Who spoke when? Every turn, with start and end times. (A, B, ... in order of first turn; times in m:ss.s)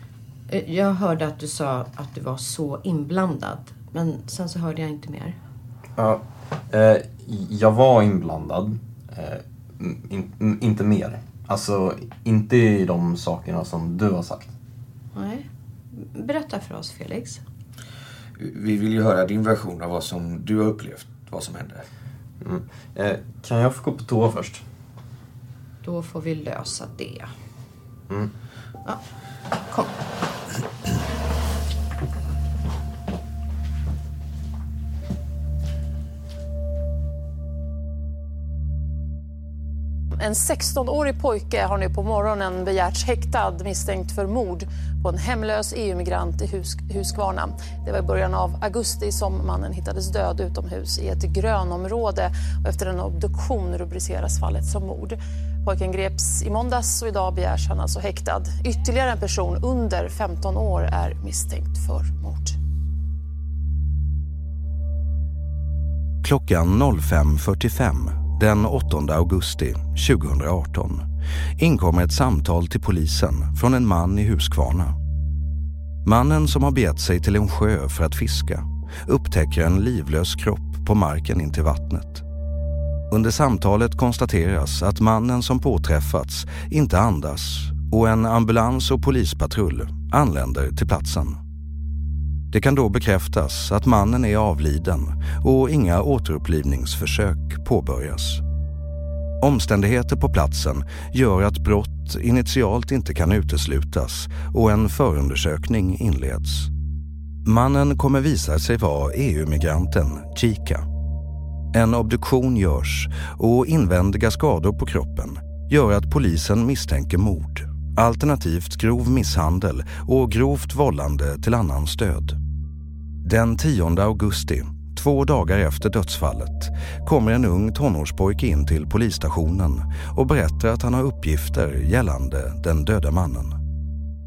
0:00.5-0:05.4 A
0:06.0-0:14.5 B
0:15.1-0:17.4 A
0:18.4-0:21.8 C
0:22.4-0:24.6 B
0:25.8-0:27.3 A
0:29.7-0:30.0 A
0:40.2-1:02.6 D
1:06.2-1:11.0 E
1:11.6-1:15.0 E
1:16.0-1:22.2 E
1:23.1-1:31.4 E
1:32.5-1:38.4 E
1:39.4-1:46.7 E
1:47.4-1:50.8 E
1:51.7-2:02.4 E
2:03.2-2:13.6 E